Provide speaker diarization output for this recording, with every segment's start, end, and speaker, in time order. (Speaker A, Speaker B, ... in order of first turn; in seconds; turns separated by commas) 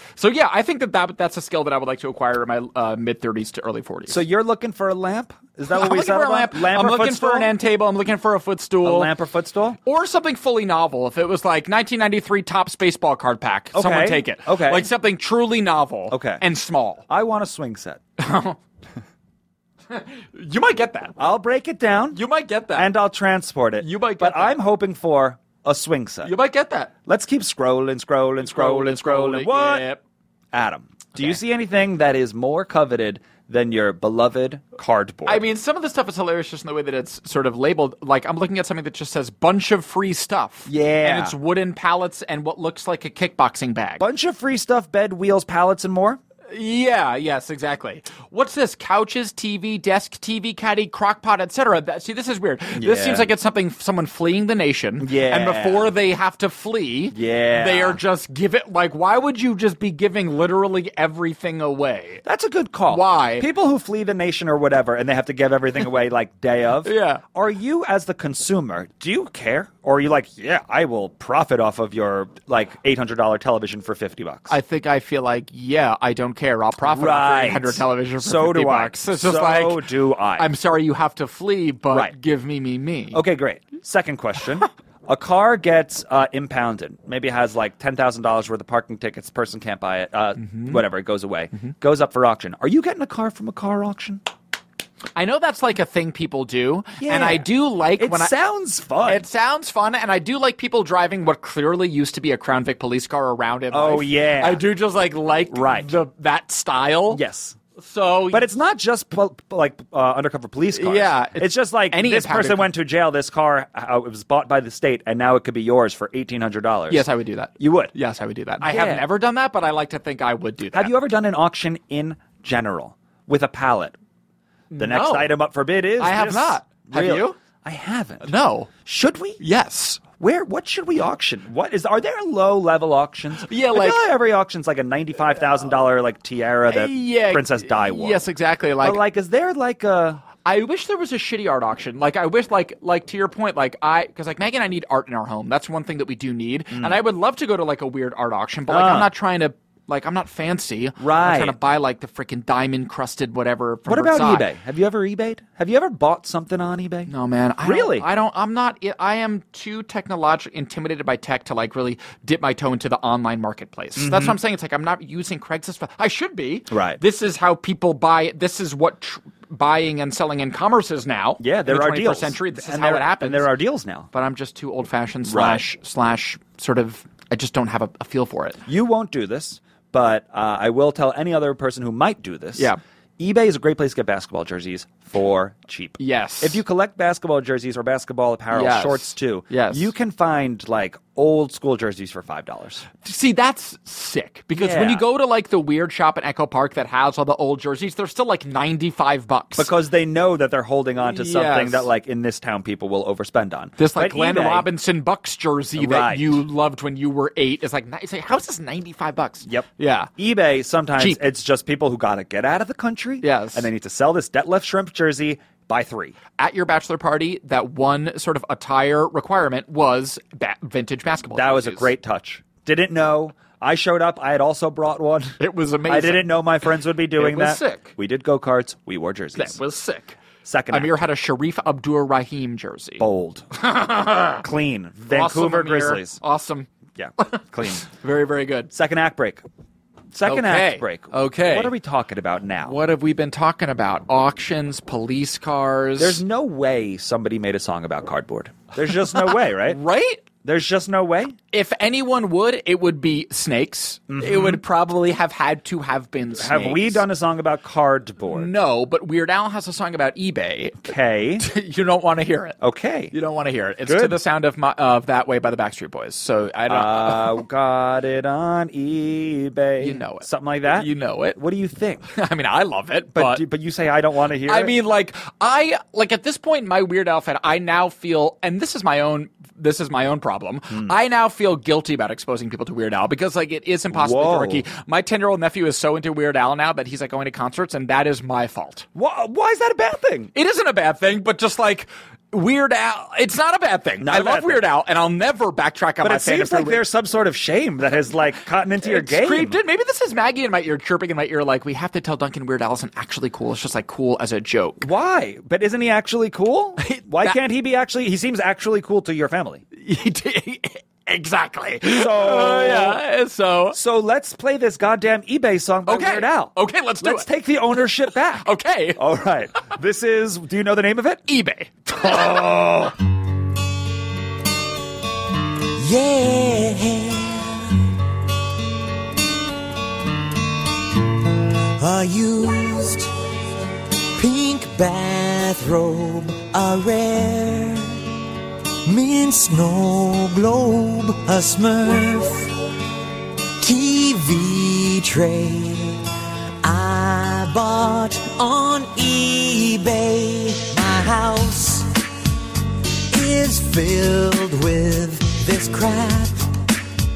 Speaker A: 0.2-4.2, Speaker B: 4.1-7.5, Speaker A: 5.7-9.1, Speaker B: 8.8-9.8, Speaker A: 9.8-17.0, Speaker B: 13.7-14.9, Speaker B: 16.1-16.4, Speaker B: 17.1-18.0, Speaker A: 18.2-18.6, Speaker A: 19.9-21.2, Speaker B: 21.2-22.2, Speaker A: 22.1-22.9, Speaker B: 22.8-26.3, Speaker A: 23.8-24.6, Speaker A: 26.2-26.9, Speaker B: 27.1-29.9, Speaker A: 28.4-30.0, Speaker B: 30.5-35.4, Speaker A: 35.3-44.0, Speaker B: 40.7-41.4, Speaker B: 44.0-46.2, Speaker A: 46.5-62.2, Speaker B: 52.8-53.3, Speaker B: 55.0-55.9, Speaker B: 57.1-58.0, Speaker B: 62.2-74.5, Speaker A: 62.9-63.5, Speaker A: 66.8-67.2, Speaker A: 74.5-83.2, Speaker B: 76.8-80.5, Speaker B: 83.1-94.2, Speaker A: 90.4-90.8, Speaker A: 95.2-98.3, Speaker B: 97.0-99.2, Speaker A: 99.0-107.2, Speaker B: 103.7-104.6, Speaker B: 105.5-105.9, Speaker B: 107.1-107.6, Speaker A: 107.8-108.5, Speaker B: 108.3-117.0, Speaker A: 110.7-112.7, Speaker A: 116.9-120.9, Speaker B: 117.6-117.9, Speaker B: 118.6-119.1, Speaker B: 120.7-124.0, Speaker A: 124.7-125.4, Speaker B: 124.8-128.3, Speaker A: 126.0-127.4, Speaker A: 128.2-128.7, Speaker B: 128.8-129.4, Speaker A: 129.4-130.0, Speaker B: 130.2-138.2, Speaker A: 133.4-134.1, Speaker A: 136.7-139.0, Speaker B: 138.8-140.2, Speaker A: 140.4-154.5, Speaker B: 146.7-147.0, Speaker B: 148.7-149.1, Speaker B: 151.0-151.6, Speaker B: 153.9-157.1, Speaker A: 157.1-173.5, Speaker B: 157.6-158.1, Speaker B: 164.0-164.4, Speaker B: 166.7-167.0, Speaker B: 171.4-174.1, Speaker A: 174.1-178.6, Speaker B: 175.3-175.7, Speaker B: 178.7-192.9, Speaker A: 186.0-186.6, Speaker A: 188.5-189.9, Speaker A: 193.0-199.7, Speaker B: 194.5-195.1, Speaker B: 199.6-204.7, Speaker A: 201.0-201.9, Speaker A: 203.8-210.1, Speaker B: 205.8-206.4, Speaker B: 209.5-216.2, Speaker A: 213.2-213.7, Speaker A: 216.4-221.9, Speaker B: 221.3-229.6, Speaker A: 225.4-227.9, Speaker A: 229.3-230.2, Speaker B: 230.4-230.9, Speaker A: 230.7-234.4, Speaker B: 233.0-233.5, Speaker B: 234.4-236.2, Speaker A: 235.1-236.7, Speaker B: 237.0-237.8, Speaker A: 237.2-238.7, Speaker B: 238.7-239.4, Speaker B: 240.1-242.8, Speaker A: 240.2-241.7, Speaker A: 242.6-246.2, Speaker B: 246.0-249.8, Speaker A: 249.1-250.2, Speaker B: 250.4-251.4, Speaker A: 251.5-257.1, Speaker B: 254.1-254.6, Speaker B: 256.4-258.5, Speaker A: 258.3-262.6, Speaker B: 260.8-261.5, Speaker B: 262.6-263.1, Speaker A: 263.1-267.4, Speaker B: 263.9-264.2, Speaker B: 266.7-272.1, Speaker A: 269.8-271.4, Speaker A: 272.1-273.4, Speaker B: 273.1-274.8, Speaker A: 274.4-288.9, Speaker B: 283.9-284.7, Speaker B: 288.9-290.3, Speaker A: 290.3-296.8, Speaker B: 294.0-294.6, Speaker B: 296.0-299.6, Speaker A: 298.8-304.9, Speaker B: 304.8-309.6, Speaker A: 306.8-307.4, Speaker A: 309.8-313.8, Speaker B: 311.9-313.0, Speaker B: 313.7-321.2, Speaker A: 315.9-319.0, Speaker A: 321.3-322.9, Speaker B: 322.0-322.9, Speaker C: 325.8-327.9, Speaker C: 331.7-333.1, Speaker C: 334.2-338.1, Speaker C: 338.9-342.6, Speaker C: 343.6-346.1, Speaker C: 346.6-351.9, Speaker C: 353.1-356.5